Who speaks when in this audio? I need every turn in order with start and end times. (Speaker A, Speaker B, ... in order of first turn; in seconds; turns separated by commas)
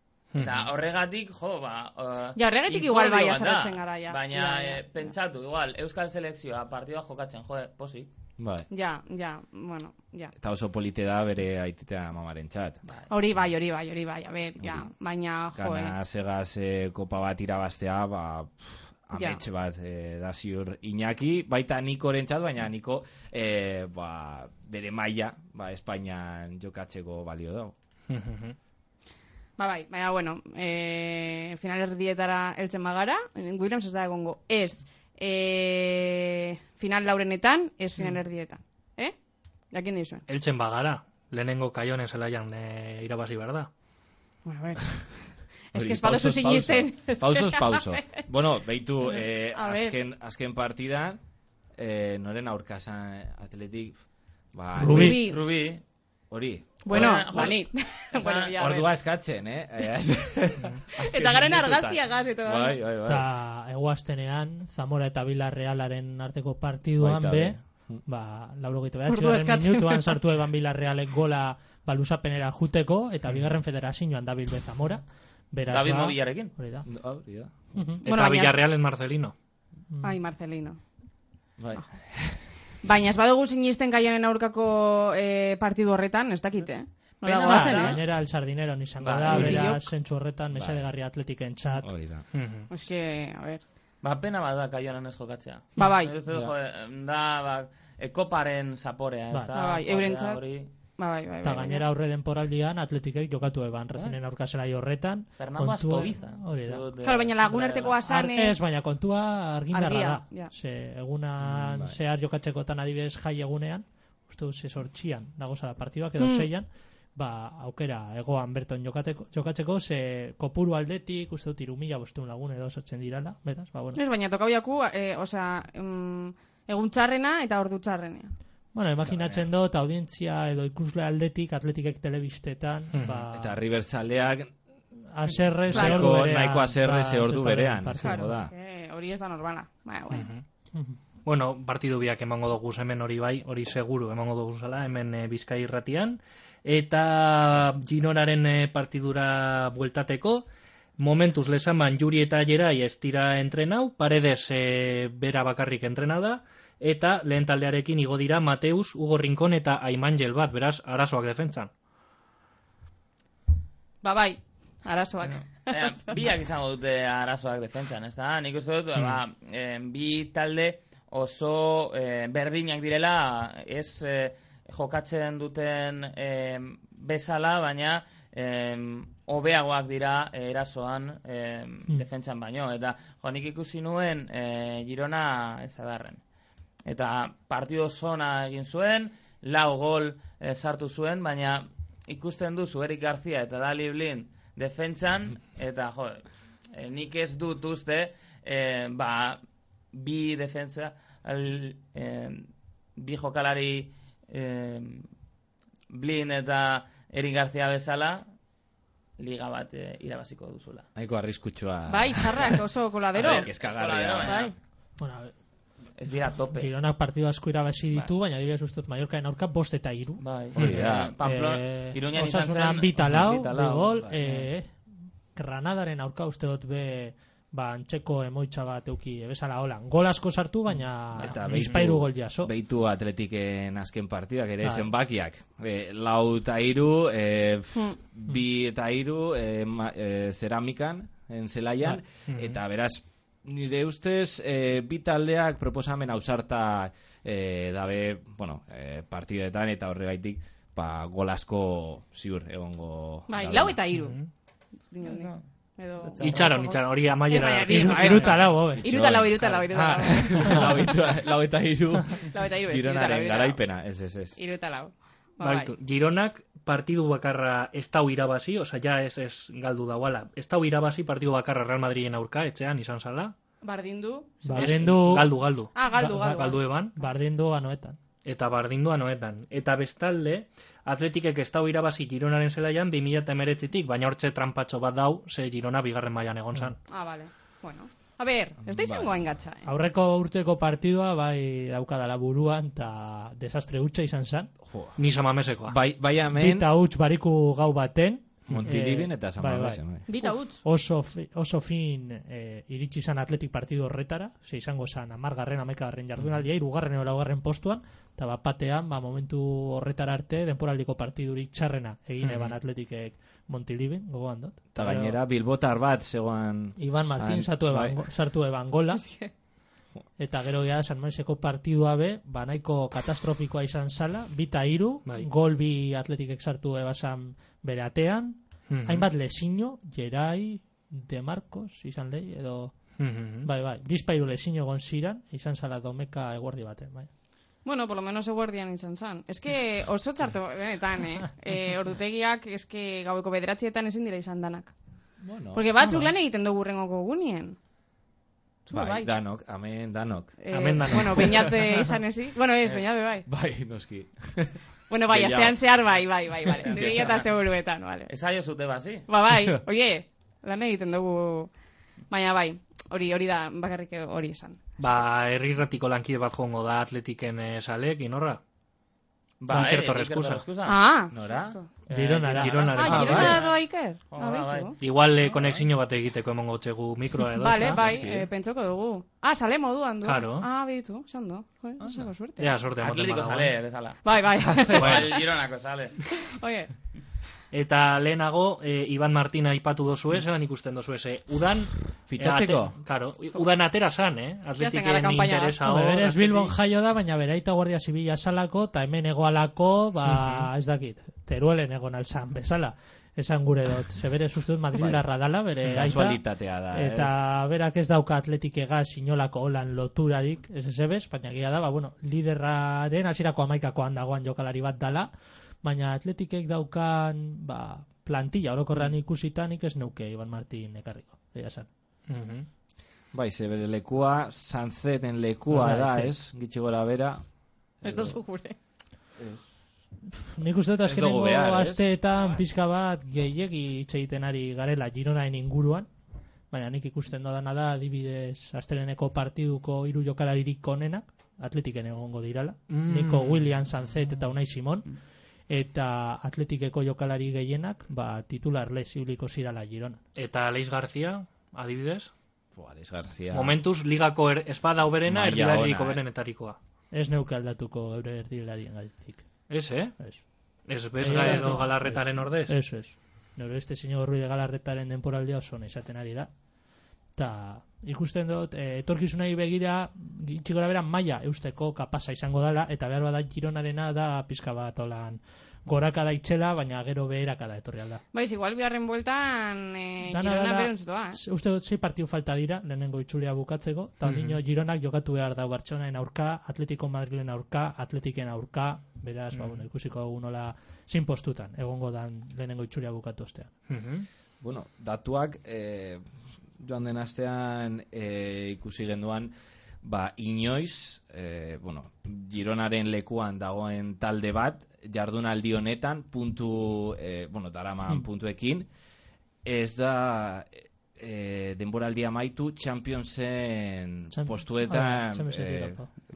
Speaker A: 0.3-0.6, Speaker B: 0.4-8.1, Speaker C: 2.3-4.8, Speaker D: 8.4-8.7, Speaker C: 8.7-10.3, Speaker D: 10.4-12.8, Speaker C: 13.1-15.9, Speaker D: 14.6-14.9, Speaker D: 15.5-27.7, Speaker C: 19.1-19.4, Speaker A: 28.1-28.6, Speaker C: 29.6-39.1, Speaker C: 39.7-40.2, Speaker A: 40.3-43.7, Speaker C: 44.4-45.1, Speaker C: 45.7-48.2, Speaker D: 45.7-51.2, Speaker C: 49.5-50.0, Speaker D: 51.7-54.0, Speaker D: 54.5-55.2, Speaker E: 54.8-55.2, Speaker C: 54.8-55.4, Speaker B: 54.9-55.8, Speaker D: 56.3-57.5, Speaker C: 56.8-58.9, Speaker B: 56.9-58.6, Speaker D: 58.6-63.3, Speaker C: 61.0-62.8, Speaker E: 63.1-76.9, Speaker D: 67.0-68.0, Speaker C: 69.1-70.2, Speaker B: 75.7-76.5, Speaker D: 76.8-77.5, Speaker E: 77.7-78.0, Speaker A: 78.0-79.3, Speaker C: 78.0-78.6, Speaker C: 80.0-80.8, Speaker D: 81.6-82.4, Speaker C: 82.8-88.0, Speaker B: 87.2-88.0, Speaker E: 87.4-91.9, Speaker B: 89.0-89.8, Speaker C: 89.2-89.8, Speaker D: 90.5-90.8, Speaker D: 91.8-92.2, Speaker A: 92.3-92.7, Speaker C: 92.7-93.6, Speaker B: 94.0-100.7, Speaker C: 95.8-96.1, Speaker C: 99.5-100.4, Speaker C: 101.0-101.8, Speaker E: 101.4-106.8, Speaker B: 105.4-108.1, Speaker C: 107.0-108.7, Speaker E: 108.1-124.0, Speaker C: 109.7-110.5, Speaker D: 111.4-112.0, Speaker C: 116.2-116.5, Speaker C: 123.9-128.3, Speaker E: 128.7-133.6, Speaker D: 129.0-129.5, Speaker A: 132.9-133.2, Speaker D: 133.3-134.5, Speaker E: 135.1-138.4, Speaker D: 135.7-138.5, Speaker C: 135.7-136.1, Speaker C: 138.0-140.3, Speaker A: 140.1-140.4, Speaker A: 141.2-150.4, Speaker A: 151.0-161.7, Speaker C: 164.0-166.1, Speaker B: 165.3-186.2, Speaker B: 186.8-199.4, Speaker B: 199.9-205.1, Speaker B: 205.9-208.2, Speaker B: 209.2-210.9, Speaker D: 210.9-212.6, Speaker C: 211.9-213.5, Speaker D: 213.1-214.4, Speaker B: 213.2-214.5, Speaker C: 214.2-214.5, Speaker E: 215.0-215.3, Speaker B: 216.0-216.7, Speaker E: 216.5-224.7, Speaker B: 220.2-224.5, Speaker D: 220.6-221.2, Speaker E: 225.3-232.5, Speaker D: 231.2-253.8, Speaker A: 231.5-231.8, Speaker A: 242.3-242.6, Speaker C: 253.3-254.2, Speaker A: 253.9-254.3, Speaker C: 254.9-261.0, Speaker B: 255.0-255.4, Speaker B: 256.0-256.7, Speaker A: 256.2-258.5, Speaker E: 257.7-258.9, Speaker D: 258.7-264.4, Speaker C: 262.3-263.6, Speaker C: 264.4-265.7, Speaker A: 265.4-273.3, Speaker C: 273.6-274.8, Speaker E: 274.4-275.3, Speaker A: 274.5-276.9, Speaker C: 275.7-276.6, Speaker E: 275.9-278.0, Speaker A: 278.2-286.8, Speaker C: 286.9-289.7, Speaker D: 288.6-289.2, Speaker E: 289.6-294.5, Speaker D: 294.6-295.0, Speaker A: 295.0-295.8, Speaker D: 295.6-296.7, Speaker E: 296.3-315.2, Speaker D: 298.5-300.1, Speaker C: 300.1-300.6, Speaker A: 312.2-312.6, Speaker D: 314.7-318.0, Speaker E: 316.8-319.1, Speaker C: 318.9-319.3, Speaker E: 320.2-332.7, Speaker A: 328.7-329.1, Speaker A: 333.0-333.5, Speaker E: 333.4-337.1, Speaker C: 337.6-344.7, Speaker D: 345.2-345.7, Speaker C: 345.5-347.6, Speaker C: 348.7-349.1, Speaker D: 348.7-351.3, Speaker C: 350.4-353.3, Speaker A: 350.5-351.5, Speaker D: 353.3-355.6, Speaker C: 354.9-358.1, Speaker D: 356.6-357.2, Speaker B: 356.7-357.2, Speaker B: 358.1-359.1, Speaker C: 359.1-361.5, Speaker C: 362.1-364.6, Speaker A: 364.8-368.4, Speaker B: 369.4-370.8, Speaker A: 369.5-370.4, Speaker C: 370.6-371.7, Speaker D: 371.1-371.6, Speaker B: 371.9-374.8, Speaker E: 371.9-372.7, Speaker A: 372.2-373.4, Speaker C: 372.7-374.7, Speaker D: 372.8-373.4, Speaker A: 374.8-377.8, Speaker C: 377.4-382.5, Speaker D: 377.7-378.3, Speaker A: 380.0-380.5, Speaker D: 381.8-382.1, Speaker A: 382.4-383.5, Speaker B: 382.8-386.0, Speaker C: 384.0-385.2, Speaker A: 384.8-385.1, Speaker C: 386.1-386.7, Speaker A: 387.5-396.5, Speaker D: 392.1-392.7, Speaker C: 394.6-395.6, Speaker E: 395.6-406.2, Speaker A: 400.1-400.5, Speaker D: 404.8-405.0, Speaker D: 405.6-407.2, Speaker E: 406.7-415.1, Speaker E: 415.6-421.7, Speaker A: 422.1-422.5, Speaker D: 423.1-427.2, Speaker E: 425.5-426.1, Speaker D: 427.8-428.1, Speaker C: 427.8-428.6, Speaker E: 430.2-435.9, Speaker D: 430.8-431.8, Speaker E: 436.5-445.0, Speaker A: 442.7-443.5, Speaker E: 445.5-450.0, Speaker A: 450.1-452.1, Speaker D: 452.5-453.6, Speaker A: 453.3-456.6, Speaker D: 455.1-456.0, Speaker E: 456.9-459.2, Speaker A: 459.5-459.9, Speaker A: 460.7-462.6, Speaker E: 461.0-466.3, Speaker D: 461.1-461.5, Speaker E: 467.1-478.0, Speaker C: 478.1-481.2, Speaker E: 480.1-493.5, Speaker A: 484.0-484.4, Speaker A: 489.3-489.6, Speaker A: 493.7-494.1, Speaker D: 494.4-496.0, Speaker D: 496.6-508.7, Speaker D: 509.4-515.8, Speaker E: 514.1-515.9